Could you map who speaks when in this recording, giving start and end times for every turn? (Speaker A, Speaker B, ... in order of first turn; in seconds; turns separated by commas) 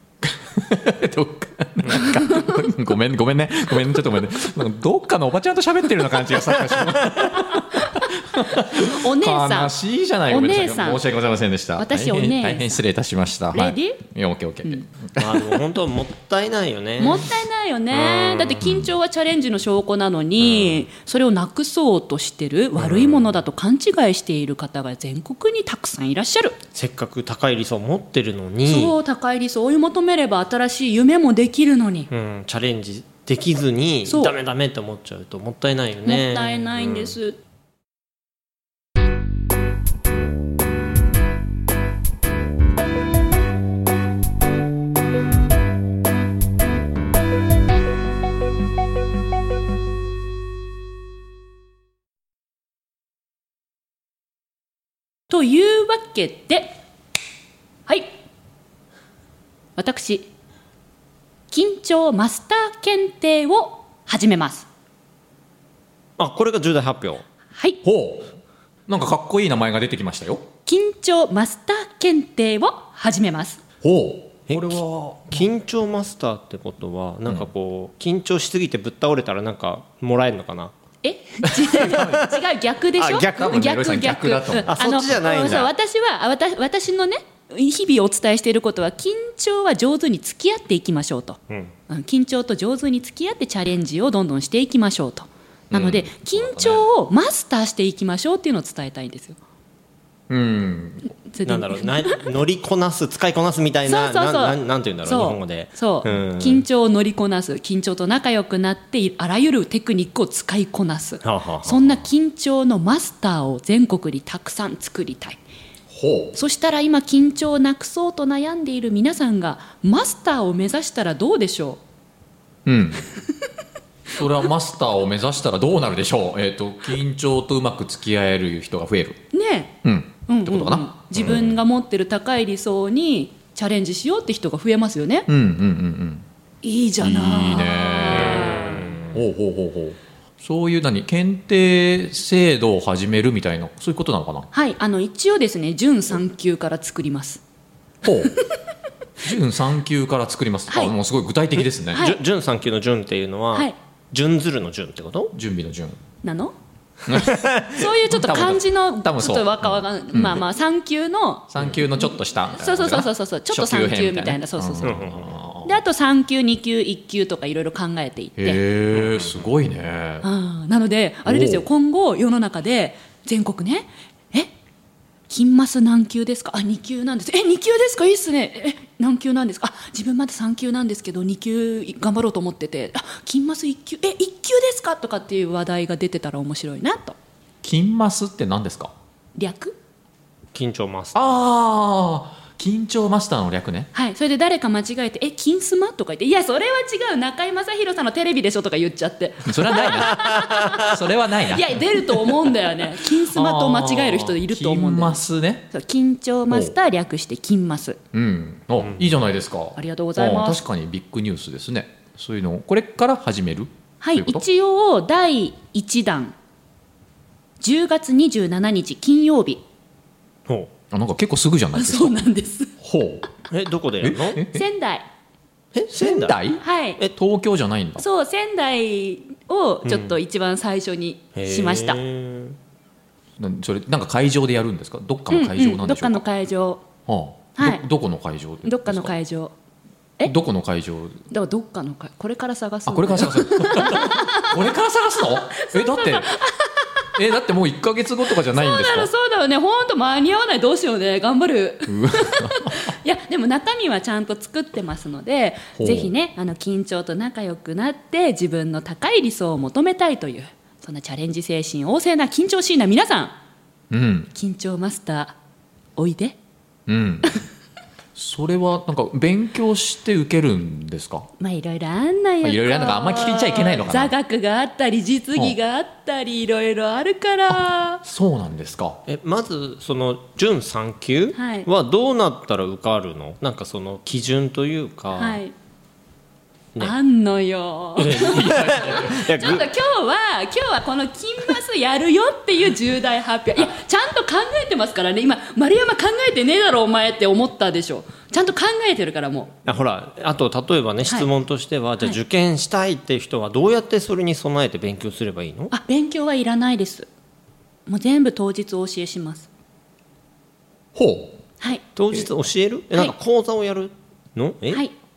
Speaker A: 0.2-15.6, Speaker B: 1.8-2.1, Speaker C: 2.0-2.5, Speaker C: 8.7-9.8, Speaker C: 10.3-11.1, Speaker C: 11.8-12.8, Speaker C: 13.5-14.1, Speaker B: 15.2-17.4, Speaker C: 17.0-26.6, Speaker B: 17.9-18.6, Speaker A: 18.6-18.9, Speaker B: 20.4-20.8, Speaker B: 22.8-23.3, Speaker B: 26.7-29.0, Speaker C: 28.6-32.1, Speaker B: 32.1-36.8, Speaker C: 34.0-34.3, Speaker C: 36.0-37.4, Speaker C: 55.3-56.7, Speaker C: 59.8-60.3, Speaker C: 61.5-64.7, Speaker B: 66.2-67.2, Speaker C: 67.5-67.8, Speaker A: 67.8-68.3, Speaker A: 68.9-70.5, Speaker C: 70.7-73.6, Speaker A: 73.8-75.5, Speaker B: 74.5-80.7, Speaker C: 81.0-99.4, Speaker A: 81.5-82.3, Speaker B: 82.0-82.2, Speaker A: 83.0-84.7, Speaker B: 84.7-85.7, Speaker A: 95.7-96.9, Speaker A: 100.3-101.1, Speaker C: 101.3-102.2, Speaker B: 101.4-106.7, Speaker C: 103.8-115.4, Speaker B: 111.2-112.0, Speaker A: 115.9-116.3, Speaker C: 116.3-121.8, Speaker A: 122.7-123.0, Speaker A: 124.1-129.2, Speaker C: 129.3-129.8, Speaker A: 129.8-131.6, Speaker C: 130.3-135.3, Speaker A: 135.3-136.2, Speaker C: 136.6-138.9, Speaker A: 137.0-144.5, Speaker B: 138.3-139.0, Speaker C: 144.5-147.4, Speaker A: 148.0-148.3, Speaker A: 149.2-152.0, Speaker C: 150.7-150.9, Speaker C: 151.9-152.2, Speaker B: 151.9-155.3, Speaker A: 155.3-156.0, Speaker C: 156.2-156.5, Speaker A: 157.1-160.4, Speaker B: 157.2-157.7, Speaker C: 157.7-165.0, Speaker A: 161.5-165.8, Speaker B: 164.8-165.3, Speaker C: 165.6-168.6, Speaker A: 168.4-170.3, Speaker C: 170.2-174.5, Speaker A: 171.3-171.6, Speaker C: 175.3-187.2, Speaker A: 187.6-188.9, Speaker C: 189.4-189.8, Speaker B: 190.5-191.2, Speaker A: 191.1-193.9, Speaker C: 193.9-208.0, Speaker A: 199.4-205.7, Speaker A: 208.1-214.4, Speaker C: 209.8-210.6, Speaker C: 214.0-216.3, Speaker C: 217.6-219.6, Speaker A: 220.9-222.2, Speaker C: 221.8-222.7, Speaker A: 222.8-223.3, Speaker B: 223.5-224.4, Speaker A: 224.0-224.7, Speaker C: 224.4-225.1, Speaker B: 225.7-226.4, Speaker A: 225.9-228.0, Speaker C: 226.6-227.0, Speaker C: 228.0-232.0, Speaker B: 229.8-230.2, Speaker B: 231.3-232.6, Speaker A: 233.4-236.2, Speaker C: 235.3-236.9, Speaker A: 237.1-239.1, Speaker C: 237.6-237.8, Speaker C: 238.6-239.5, Speaker A: 240.2-241.2, Speaker C: 241.3-244.6, Speaker A: 242.9-246.3, Speaker C: 245.3-247.1, Speaker A: 247.2-249.1, Speaker C: 248.4-263.4, Speaker A: 251.9-252.9, Speaker A: 255.8-256.1, Speaker A: 263.9-264.3, Speaker C: 264.3-265.4, Speaker C: 266.0-266.4, Speaker A: 266.9-267.3, Speaker A: 268.2-271.3, Speaker C: 271.4-278.0, Speaker A: 272.4-274.1, Speaker A: 278.0-279.0, Speaker B: 279.1-285.4, Speaker C: 281.3-281.7, Speaker C: 285.1-285.5, Speaker C: 286.8-299.5, Speaker B: 288.0-289.7, Speaker A: 288.0-289.3, Speaker B: 299.7-305.7, Speaker C: 305.7-307.1, Speaker C: 307.9-309.5, Speaker A: 310.9-311.4, Speaker B: 312.0-314.8